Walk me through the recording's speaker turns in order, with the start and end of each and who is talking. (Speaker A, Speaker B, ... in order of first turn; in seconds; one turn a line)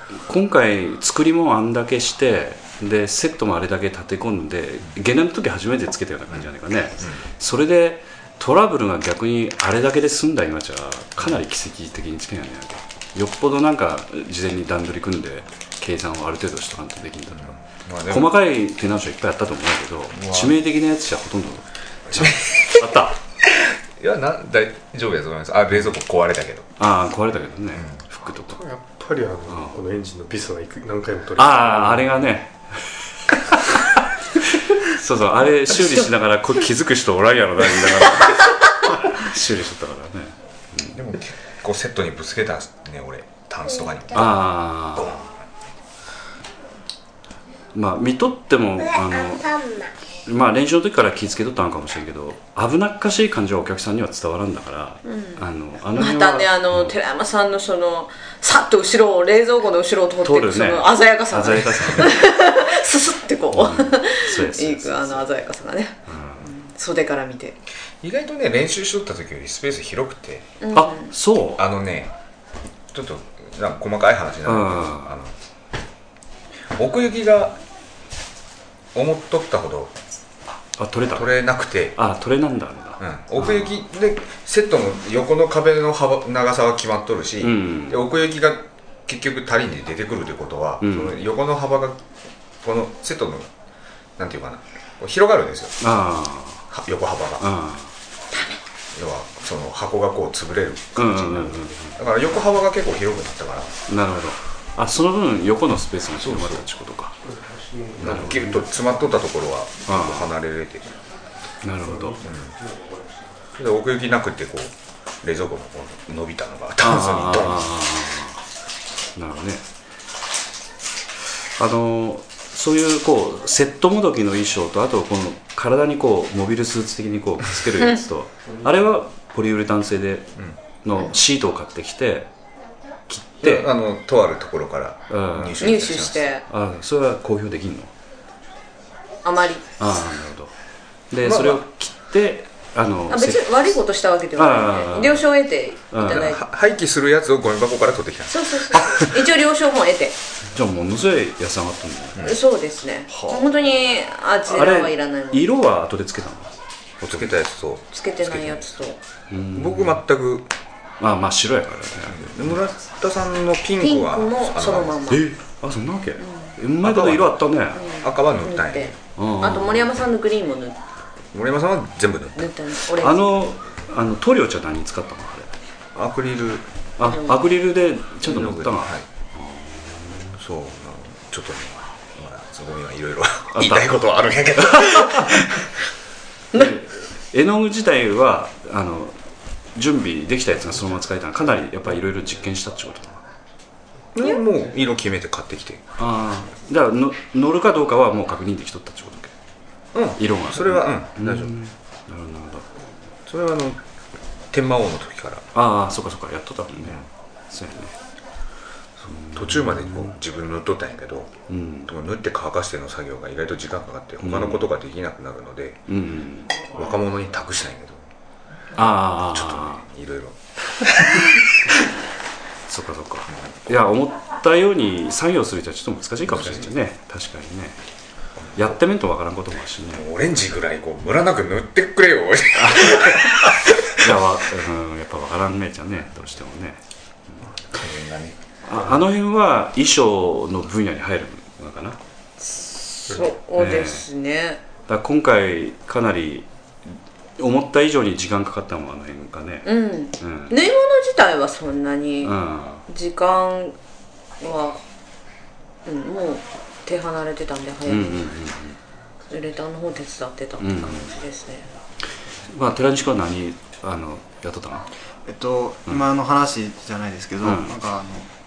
Speaker A: 0.1-17.6
Speaker B: 17.4-18.3
Speaker A: 18.1-23.2
Speaker B: 20.1-20.6
Speaker B: 22.1-22.8
Speaker B: 24.0-26.7
Speaker A: 26.8-28.6
Speaker B: 27.8-28.1
Speaker C: 28.5-32.1
Speaker A: 29.5-29.8
Speaker A: 31.4-41.0
Speaker B: 40.9-45.3
Speaker A: 44.1-45.1
Speaker A: 47.7-56.9
Speaker D: 55.0-67.6
Speaker A: 60.2-62.2
Speaker A: 63.5-65.2
Speaker A: 66.1-66.5
Speaker B: 68.0-70.5
Speaker D: 70.6-71.1
Speaker A: 70.7-71.6
Speaker B: 71.6-72.1
Speaker B: 72.9-75.3
Speaker A: 74.5-75.2
Speaker B: 76.8-77.6
Speaker B: 78.9-79.9
Speaker A: 80.8-81.3
Speaker B: 81.1-82.0
Speaker A: 81.9-83.8
Speaker B: 83.0-92.0
Speaker A: 87.4-88.0
Speaker A: 90.8-91.2
Speaker B: 92.6-93.5
Speaker B: 94.2-95.8
Speaker A: 95.8-96.7
Speaker B: 96.7-97.5
Speaker A: 97.4-97.9
Speaker B: 98.9-103.7
Speaker A: 101.0-102.0
Speaker A: 103.9-107.2
Speaker B: 106.2-106.6
Speaker A: 108.0-108.6
Speaker B: 108.0-111.0
Speaker A: 109.9-110.3
Speaker A: 111.6-112.2
Speaker B: 112.2-112.5
Speaker B: 113.5-117.7
Speaker A: 116.8-118.4
Speaker A: 119.2-119.6
Speaker A: 121.6-132.3
Speaker A: 133.1-133.7
Speaker B: 133.4-136.2
Speaker A: 135.1-135.6
Speaker D: 135.6-136.4
Speaker A: 136.5-137.9
Speaker D: 139.2-139.6
Speaker A: 139.8-140.5
Speaker A: 141.1-143.8
Speaker B: 141.2-141.6
Speaker D: 143.1-146.4
Speaker A: 144.3-145.2
Speaker A: 145.9-146.3
Speaker B: 146.1-148.9
Speaker D: 148.3-150.2
Speaker A: 150.5-152.3
Speaker D: 152.2-155.5
Speaker A: 153.1-153.5
Speaker A: 154.5-157.3
Speaker B: 157.1-158.7
Speaker D: 157.9-159.0
Speaker A: 159.3-160.0
Speaker B: 159.5-160.5
Speaker A: 161.0-162.6
Speaker B: 162.1-165.1
Speaker D: 163.8-165.2
Speaker A: 165.1-167.8
Speaker D: 166.2-166.5
Speaker B: 166.8-167.4
Speaker D: 167.7-170.8
Speaker B: 168.0-168.9
Speaker A: 169.2-169.9
Speaker B: 171.3-172.5
Speaker D: 172.3-173.4
Speaker A: 172.9-175.5
Speaker B: 175.9-176.7
Speaker A: 177.0-180.3
Speaker D: 177.0-177.4
Speaker B: 178.2-179.0
Speaker B: 180.4-185.7
Speaker A: 183.5-183.9
Speaker A: 186.5-189.2
Speaker A: 189.7-193.2
Speaker B: 194.1-195.8
Speaker A: 196.0-199.3
Speaker B: 199.9-201.6
Speaker A: 200.2-202.7
Speaker B: 203.3-203.8
Speaker B: 204.5-205.4
Speaker A: 205.5-207.9
Speaker B: 206.8-207.1
Speaker B: 209.0-211.3
Speaker A: 209.1-210.2
Speaker A: 211.5-211.9
Speaker B: 211.9-215.8
Speaker A: 214.2-214.7
Speaker A: 215.9-216.6
Speaker B: 216.6-218.0
Speaker A: 218.8-219.8
Speaker B: 219.3-221.4
Speaker A: 222.7-227.8
Speaker B: 226.3-226.7
Speaker B: 228.4-228.8
Speaker A: 228.5-230.0
Speaker B: 229.9-233.9
Speaker A: 232.5-236.8
Speaker B: 237.4-238.4
Speaker A: 238.7-242.0
Speaker D: 242.4-244.6
Speaker A: 243.5-244.1
Speaker A: 244.9-250.5
Speaker D: 249.6-252.3
Speaker A: 252.2-252.8
Speaker D: 252.9-253.8
Speaker D: 254.4-254.8
Speaker D: 255.8-258.3
Speaker A: 257.9-258.8
Speaker D: 259.3-261.7
Speaker A: 260.6-261.1
Speaker A: 262.5-264.9
Speaker E: 265.2-268.3
Speaker A: 267.4-267.7